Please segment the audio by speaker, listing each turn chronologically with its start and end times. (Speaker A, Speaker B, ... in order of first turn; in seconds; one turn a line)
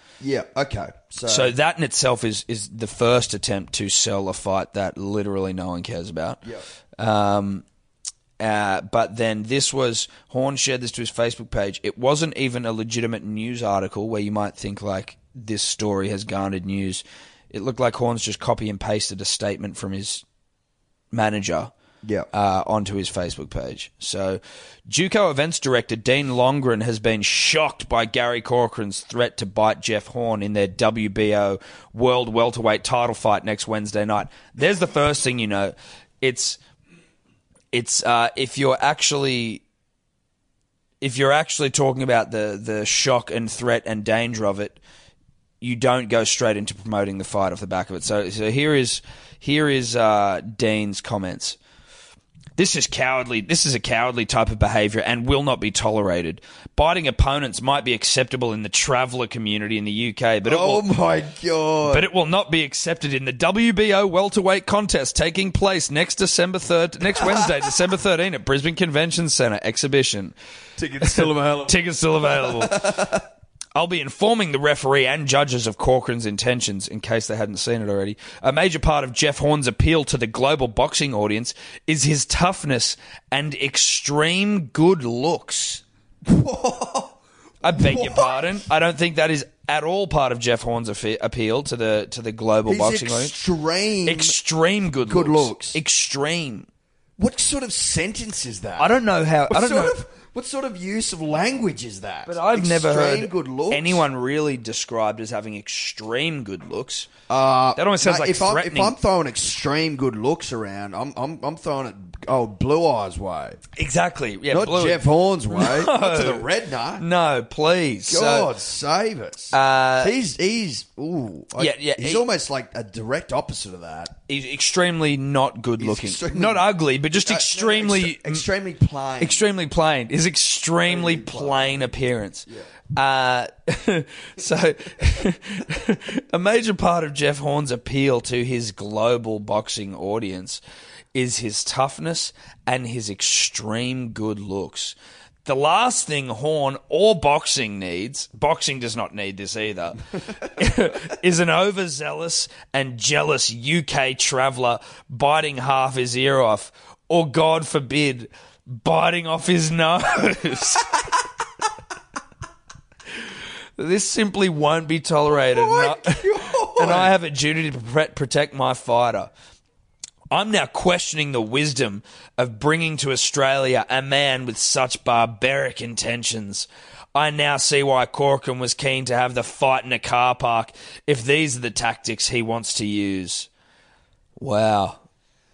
Speaker A: 0.2-1.5
Speaker B: 1.2-6.4
Speaker B: 7.0-7.6
Speaker B: 8.4-20.2
Speaker B: 21.1-21.7
Speaker A: 22.0-22.3
Speaker B: 22.3-36.6
Speaker B: 37.7-39.6
Speaker B: 41.0-44.8
Speaker B: 45.6-51.6
Speaker B: 52.6-60.8
Speaker A: 60.4-62.1
Speaker B: 61.9-70.3
Speaker A: 67.2-67.5
Speaker A: 70.8-73.2
Speaker B: 71.0-73.2
Speaker B: 73.7-85.8
Speaker A: 86.2-88.6
Speaker B: 87.6-93.3
Speaker A: 92.7-94.4
Speaker B: 94.0-96.7
Speaker A: 95.0-95.8
Speaker A: 97.2-99.0
Speaker B: 98.8-100.0
Speaker A: 99.5-104.0
Speaker B: 102.2-107.1
Speaker A: 107.3-113.6
Speaker B: 107.8-108.9
Speaker B: 113.7-116.4
Speaker A: 114.5-117.0
Speaker B: 117.0-118.5
Speaker A: 118.1-124.1
Speaker B: 119.5-120.1
Speaker B: 121.6-122.2
Speaker B: 124.3-128.4
Speaker A: 125.8-129.4
Speaker B: 129.2-140.6
Speaker A: 130.9-131.9
Speaker B: 141.1-160.9
Speaker B: 163.8-169.3
Speaker A: 165.3-167.1
Speaker B: 170.3-183.5
Speaker B: 184.4-185.0